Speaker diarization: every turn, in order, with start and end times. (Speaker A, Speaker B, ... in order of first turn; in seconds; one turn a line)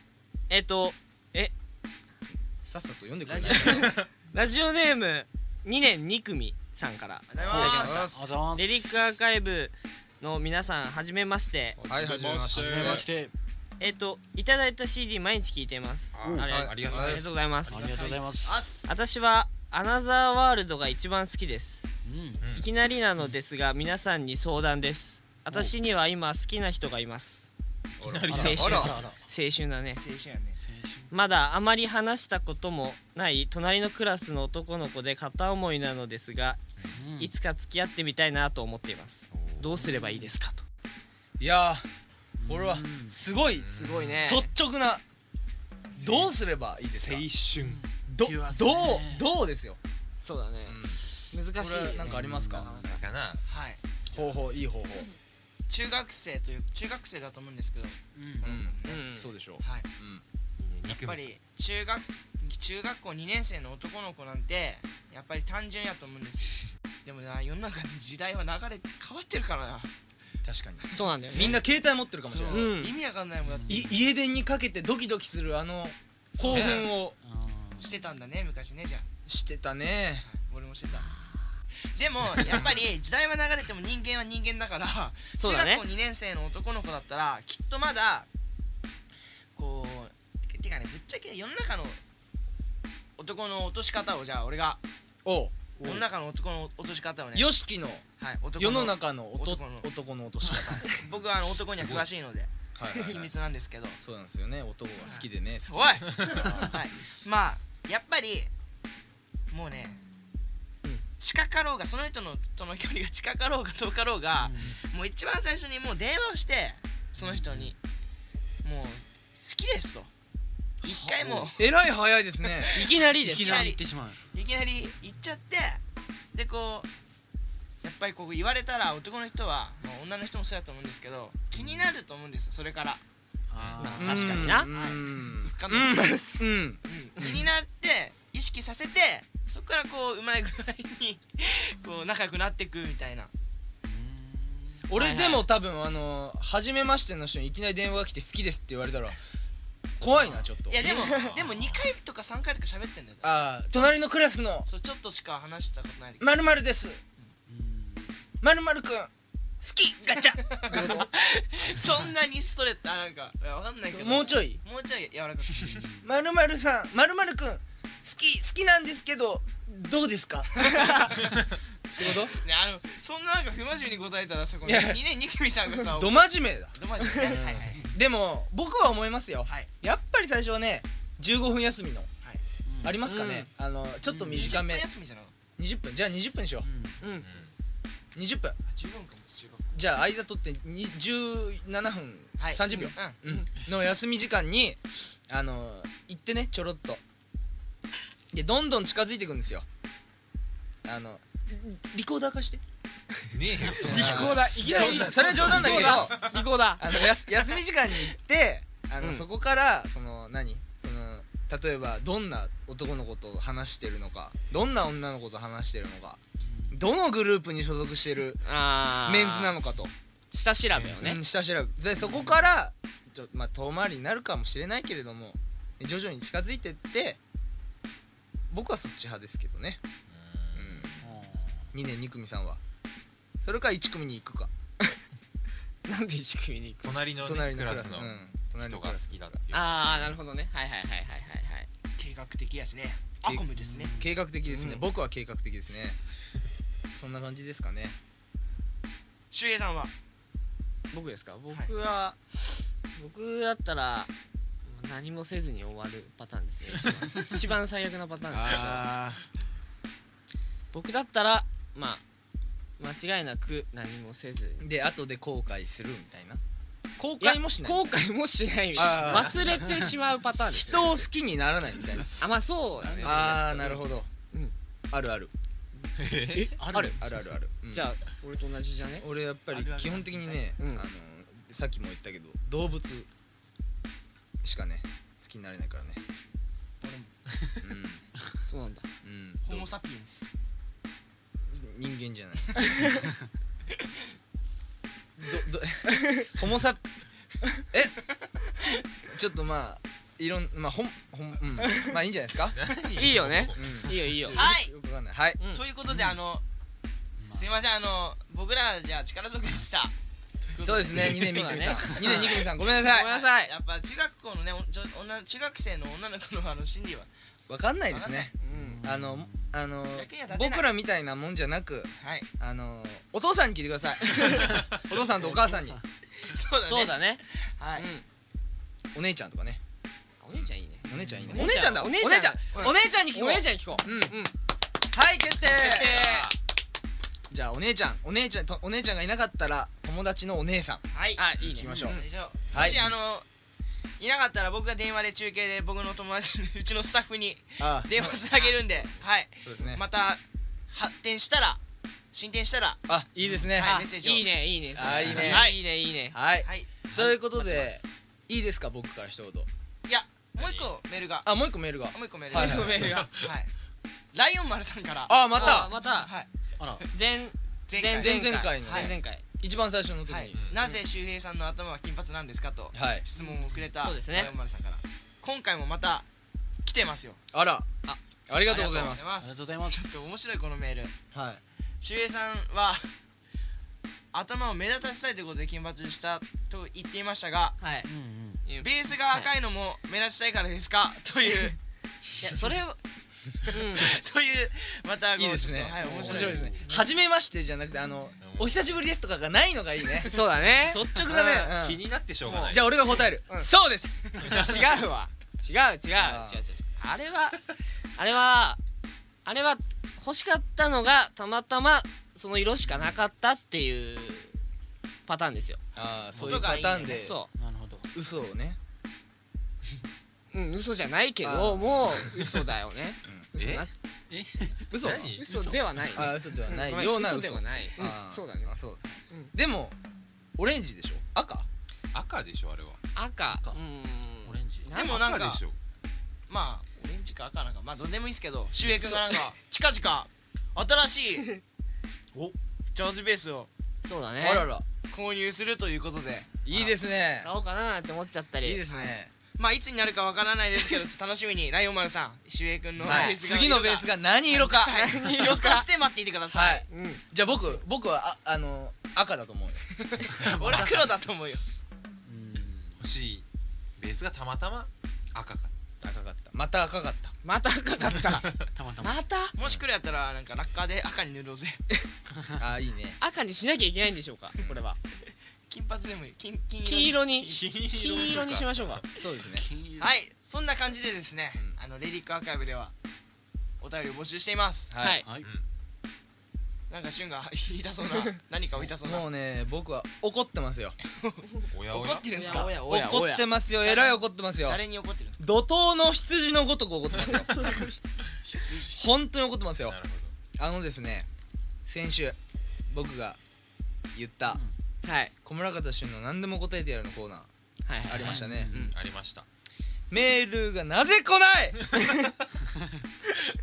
Speaker A: 0.5-1.5
Speaker B: 2.6-3.9
Speaker C: 3.2-4.0
Speaker A: 3.5-11.8
Speaker C: 7.3-8.2
Speaker B: 7.5-8.1
Speaker D: 7.9-8.9
Speaker E: 11.8-13.1
Speaker B: 11.9-13.1
Speaker D: 12.5-13.3
Speaker A: 13.8-17.9
Speaker E: 16.1-18.1
Speaker D: 16.2-16.5
Speaker B: 16.5-17.2
Speaker D: 17.7-18.6
Speaker C: 17.7-18.9
Speaker A: 18.9-21.9
Speaker D: 22.1-22.5
Speaker E: 22.4-22.7
Speaker A: 22.5-27.5
Speaker B: 28.0-29.0
Speaker E: 28.0-28.9
Speaker D: 28.3-29.2
Speaker A: 28.3-30.0
Speaker C: 30.0-30.6
Speaker D: 30.6-31.1
Speaker A: 31.1-36.6
Speaker D: 36.9-37.4
Speaker A: 37.1-40.6
Speaker E: 39.3-39.8
Speaker D: 39.8-40.3
Speaker B: 41.4-41.9
Speaker D: 42.4-43.2
Speaker B: 42.5-43.7
Speaker E: 43.5-44.2
Speaker A: 43.7-44.5
Speaker B: 44.2-45.0
Speaker B: 46.0-47.2
Speaker E: 46.0-47.8
Speaker D: 47.5-49.2
Speaker B: 48.1-49.8
Speaker A: 50.2-53.1
Speaker B: 50.7-51.0
Speaker B: 51.6-52.7
Speaker D: 52.1-52.8
Speaker E: 52.8-53.4
Speaker C: 53.5-54.3
Speaker B: 54.1-55.1
Speaker C: 55.7-59.0
Speaker D: 58.1-58.5
Speaker B: 58.4-60.2
Speaker A: 58.9-59.3
Speaker C: 59.6-59.9
Speaker E: 60.6-61.3
Speaker C: 60.9-69.9
Speaker B: 70.4-72.7
Speaker A: 70.9-71.6
Speaker C: 71.3-73.9
Speaker A: 72.5-72.9
Speaker D: 73.4-73.9
Speaker B: 73.7-77.2
Speaker C: 76.3-76.8
Speaker E: 76.5-76.9
Speaker D: 77.2-77.9
Speaker C: 77.8-79.1
Speaker B: 79.3-80.3
Speaker C: 80.2-81.1
Speaker A: 80.9-81.5
Speaker C: 82.0-88.3
Speaker B: 82.5-82.8
Speaker A: 85.4-85.8
Speaker C: 89.5-92.0
Speaker C: 93.2-94.8
Speaker B: 95.2-95.7
Speaker C: 95.8-97.5
Speaker B: 97.3-98.0
Speaker C: 98.2-99.9
Speaker B: 98.6-100.9
Speaker C: 101.0-104.0
Speaker E: 101.7-102.1
Speaker B: 102.8-103.3
Speaker B: 104.0-106.7
Speaker C: 105.0-108.5
Speaker E: 106.2-106.5
Speaker C: 109.5-110.0
Speaker C: 111.2-117.8
Speaker D: 114.4-114.8
Speaker D: 117.2-117.7
Speaker C: 118.6-120.1
Speaker C: 120.8-121.7
Speaker B: 120.9-122.7
Speaker C: 122.5-125.8
Speaker A: 122.7-123.7
Speaker D: 123.2-124.2
Speaker C: 126.3-126.9
Speaker C: 127.8-133.0
Speaker D: 133.5-134.6
Speaker E: 133.6-134.0
Speaker A: 133.8-134.7
Speaker B: 133.9-137.5
Speaker C: 134.1-136.2
Speaker C: 136.8-143.3
Speaker D: 143.8-144.8
Speaker B: 144.9-149.2
Speaker C: 144.9-145.4
Speaker B: 150.0-151.1
Speaker C: 150.1-154.0
Speaker E: 150.8-151.9
Speaker B: 153.2-154.7
Speaker C: 154.7-156.4
Speaker B: 156.2-157.0
Speaker D: 157.5-158.2
Speaker B: 158.4-159.1
Speaker B: 159.6-161.1
Speaker C: 160.5-165.9
Speaker B: 163.8-164.6
Speaker D: 165.6-166.1
Speaker B: 166.0-171.1
Speaker B: 171.9-172.4
Speaker C: 172.0-176.2
Speaker B: 174.6-175.0
Speaker B: 175.9-182.1
Speaker C: 176.7-177.9
Speaker D: 182.7-183.0
Speaker B: 182.8-184.8
Speaker A: 183.1-183.5
Speaker C: 184.1-185.3
Speaker D: 184.2-184.6
Speaker B: 185.6-186.7
Speaker D: 186.6-187.0
Speaker A: 187.0-187.3
Speaker E: 187.2-187.5
Speaker B: 188.2-188.6
Speaker C: 188.7-189.9
Speaker B: 189.7-197.0
Speaker C: 192.4-193.2
Speaker B: 198.3-199.7
Speaker B: 200.8-202.6
Speaker E: 203.3-206.3
Speaker D: 203.6-204.0
Speaker A: 203.8-206.8
Speaker B: 203.8-216.2
Speaker D: 204.8-205.0
Speaker A: 209.0-209.2
Speaker D: 216.4-216.8
Speaker B: 216.7-218.4
Speaker A: 218.4-219.6
Speaker B: 219.1-219.9
Speaker A: 220.3-221.2
Speaker E: 220.7-221.0
Speaker B: 221.0-227.2
Speaker D: 222.0-222.4
Speaker B: 228.5-229.8
Speaker E: 230.1-231.1
Speaker B: 230.6-231.0
Speaker D: 231.0-231.7
Speaker B: 231.7-232.6
Speaker B: 233.4-234.5
Speaker A: 235.8-236.9
Speaker E: 236.8-240.2
Speaker B: 237.2-239.4
Speaker A: 239.5-241.7
Speaker C: 242.0-244.1
Speaker B: 243.2-246.0
Speaker D: 243.6-243.9
Speaker A: 244.4-244.9
Speaker B: 247.0-248.0
Speaker C: 249.3-249.9
Speaker A: 250.9-254.1
Speaker A: 254.7-258.7
Speaker B: 258.3-258.9
Speaker C: 258.5-259.2
Speaker A: 260.7-262.0
Speaker A: 262.8-264.6
Speaker B: 264.6-266.4
Speaker B: 267.0-267.9
Speaker A: 267.2-271.1
Speaker B: 268.7-269.4
Speaker B: 270.5-272.2
Speaker A: 272.2-274.5
Speaker D: 272.8-273.4
Speaker B: 273.0-274.1
Speaker B: 274.9-275.3
Speaker E: 276.0-276.5
Speaker A: 276.3-277.0
Speaker D: 276.6-277.1
Speaker B: 277.0-277.9
Speaker A: 277.7-279.1
Speaker B: 279.0-283.1
Speaker C: 279.5-280.5
Speaker B: 284.4-286.0
Speaker C: 286.8-287.1
Speaker B: 287.6-288.0
Speaker A: 288.4-288.9
Speaker B: 289.0-289.7
Speaker C: 289.5-290.3
Speaker B: 291.5-292.8
Speaker B: 295.2-296.8
Speaker B: 297.7-298.0
Speaker B: 299.1-302.6
Speaker A: 301.6-301.9
Speaker E: 302.6-303.8
Speaker A: 302.9-304.4
Speaker B: 303.5-305.4
Speaker C: 304.3-304.7
Speaker C: 305.5-306.4
Speaker D: 305.9-306.2
Speaker D: 307.2-307.5
Speaker C: 307.3-317.1
Speaker B: 310.6-313.1
Speaker A: 311.3-311.8
Speaker A: 312.8-313.5
Speaker B: 317.5-325.8
Speaker C: 317.9-318.3
Speaker A: 318.4-318.8
Speaker D: 318.5-319.6
Speaker C: 319.9-320.7
Speaker C: 322.0-322.3
Speaker D: 325.2-325.8
Speaker C: 326.2-327.9
Speaker A: 326.7-327.2
Speaker A: 327.8-328.0
Speaker B: 328.9-329.6
Speaker A: 330.2-334.3
Speaker B: 330.9-334.2
Speaker D: 330.9-331.4
Speaker B: 334.9-336.0
Speaker C: 335.4-336.3
Speaker E: 335.7-336.3
Speaker A: 335.8-336.3
Speaker B: 337.3-340.8
Speaker C: 340.9-343.3
Speaker A: 341.2-342.0
Speaker B: 341.6-342.0
Speaker B: 342.5-342.9
Speaker C: 344.0-351.6
Speaker B: 347.6-348.2
Speaker B: 349.4-349.8
Speaker C: 352.1-352.8
Speaker B: 352.9-353.8
Speaker D: 353.2-353.5
Speaker C: 353.5-354.3
Speaker A: 353.6-356.2
Speaker B: 354.8-355.5
Speaker C: 355.2-355.6
Speaker B: 356.1-359.5
Speaker C: 356.4-356.9
Speaker C: 359.9-361.3
Speaker E: 360.4-360.7
Speaker B: 361.2-362.7
Speaker C: 361.9-362.6
Speaker A: 362.3-363.1
Speaker E: 362.4-363.3
Speaker C: 363.2-363.5
Speaker C: 364.1-366.8
Speaker B: 365.1-365.7
Speaker A: 365.3-366.1
Speaker D: 366.6-366.9
Speaker A: 366.9-369.2
Speaker C: 367.7-368.9
Speaker B: 368.0-370.5
Speaker C: 370.1-376.1
Speaker B: 372.7-373.0
Speaker D: 373.2-373.5
Speaker A: 373.8-374.3
Speaker C: 376.6-377.2
Speaker B: 377.3-377.7
Speaker B: 378.3-379.1
Speaker C: 378.5-380.9
Speaker D: 379.2-379.9
Speaker B: 381.1-381.4
Speaker C: 381.8-382.9
Speaker C: 384.1-387.6
Speaker A: 387.6-387.9
Speaker D: 387.9-388.4
Speaker A: 388.4-389.3
Speaker C: 388.6-391.6
Speaker C: 392.2-392.8
Speaker C: 393.4-396.6
Speaker A: 393.5-393.9
Speaker B: 395.2-401.8
Speaker A: 395.8-396.3
Speaker E: 395.9-396.6
Speaker E: 398.2-398.7
Speaker C: 400.0-400.6
Speaker A: 400.1-401.5
Speaker E: 401.6-402.7
Speaker A: 402.2-402.6
Speaker B: 402.5-403.5
Speaker A: 403.3-408.6
Speaker E: 404.3-404.7
Speaker B: 406.0-406.4
Speaker A: 409.2-414.4
Speaker A: 415.1-415.6
Speaker B: 415.8-417.2
Speaker C: 416.1-417.1
Speaker A: 416.9-417.3
Speaker D: 417.4-417.9
Speaker B: 417.9-418.6
Speaker A: 420.3-423.7
Speaker B: 421.2-422.1
Speaker E: 423.4-423.7
Speaker D: 424.1-424.7
Speaker B: 424.7-425.2
Speaker E: 424.8-425.4
Speaker A: 425.2-428.5
Speaker D: 425.3-426.1
Speaker B: 425.9-428.8
Speaker B: 429.4-429.8
Speaker B: 430.4-431.5
Speaker E: 431.9-432.8
Speaker A: 432.9-434.9
Speaker D: 434.2-434.8
Speaker C: 434.7-435.4
Speaker E: 434.8-435.6
Speaker C: 436.3-441.3
Speaker C: 442.7-443.5
Speaker A: 443.8-444.5
Speaker B: 444.2-444.6
Speaker C: 444.9-446.7
Speaker B: 446.4-447.3
Speaker A: 447.2-448.6
Speaker B: 448.4-449.1
Speaker C: 448.8-456.7
Speaker B: 452.8-454.8
Speaker A: 452.8-453.2
Speaker A: 454.7-455.7
Speaker B: 456.3-459.6
Speaker A: 456.7-457.0
Speaker C: 457.3-457.6
Speaker C: 459.8-461.4
Speaker D: 460.1-460.9
Speaker D: 462.1-462.8
Speaker E: 462.8-463.2
Speaker E: 463.8-465.5
Speaker B: 465.8-467.1
Speaker A: 467.2-468.3
Speaker E: 467.9-468.5
Speaker D: 468.5-469.0
Speaker A: 468.8-469.4
Speaker C: 469.4-471.6
Speaker B: 472.4-473.0
Speaker A: 473.0-474.8
Speaker C: 475.5-477.4
Speaker A: 476.6-478.8
Speaker E: 477.4-478.9
Speaker B: 479.0-479.5
Speaker D: 479.3-479.9
Speaker C: 479.8-482.7
Speaker C: 483.6-484.7
Speaker B: 484.7-485.0
Speaker A: 484.8-485.1
Speaker E: 485.2-485.4
Speaker C: 486.7-489.1
Speaker B: 488.8-490.8
Speaker C: 490.9-492.9
Speaker E: 491.5-492.3
Speaker A: 492.1-493.2
Speaker B: 492.5-494.6
Speaker C: 493.6-495.2
Speaker B: 495.2-497.3
Speaker A: 497.1-498.0
Speaker D: 498.2-498.8
Speaker B: 498.6-499.8
Speaker E: 499.6-500.1
Speaker B: 500.4-501.1
Speaker B: 501.7-502.2
Speaker B: 502.7-503.2
Speaker B: 503.9-504.4
Speaker D: 504.3-504.6
Speaker A: 504.8-505.1
Speaker B: 505.2-507.3
Speaker A: 507.7-508.7
Speaker B: 507.9-508.5
Speaker D: 508.0-508.7
Speaker E: 508.6-509.3
Speaker B: 509.9-511.7